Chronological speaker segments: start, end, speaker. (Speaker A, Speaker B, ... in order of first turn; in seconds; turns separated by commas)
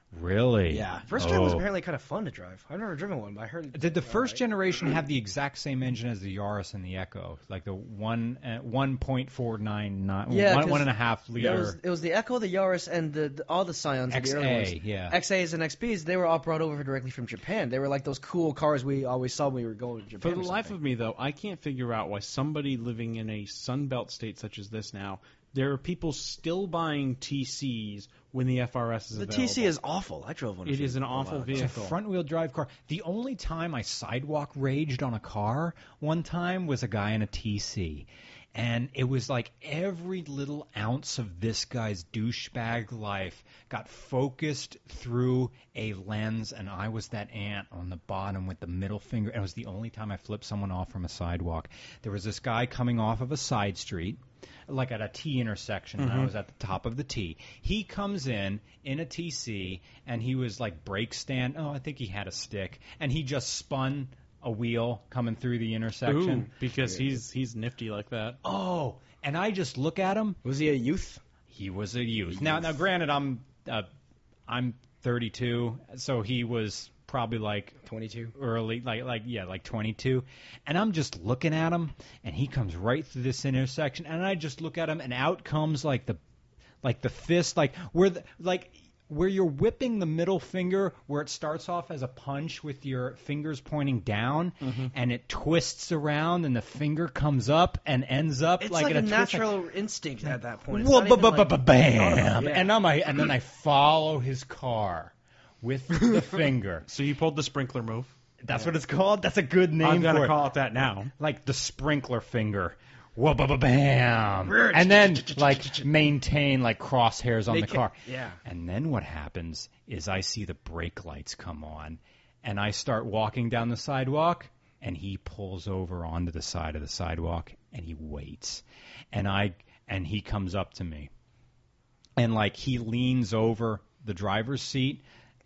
Speaker A: 0.1-1.7, Speaker B: 0.7-4.4, Speaker A: 3.7-11.8, Speaker B: 10.3-20.8, Speaker A: 14.1-15.2, Speaker C: 20.2-29.7, Speaker B: 29.1-31.9, Speaker C: 30.7-31.9, Speaker A: 31.5-66.5, Speaker C: 56.0-56.3, Speaker C: 66.0-68.4, Speaker A: 68.4-70.4, Speaker B: 70.4-71.2, Speaker A: 71.5-73.9, Speaker A: 74.5-77.8, Speaker B: 77.8-78.3, Speaker A: 78.3-86.2, Speaker A: 86.8-99.6, Speaker C: 94.6-94.9, Speaker B: 98.6-102.8, Speaker A: 100.7-106.9, Speaker C: 106.9-108.1, Speaker A: 108.4-110.4, Speaker C: 109.8-111.1, Speaker A: 111.2-131.1, Speaker B: 114.4-115.9, Speaker B: 117.5-118.4, Speaker A: 132.2-135.0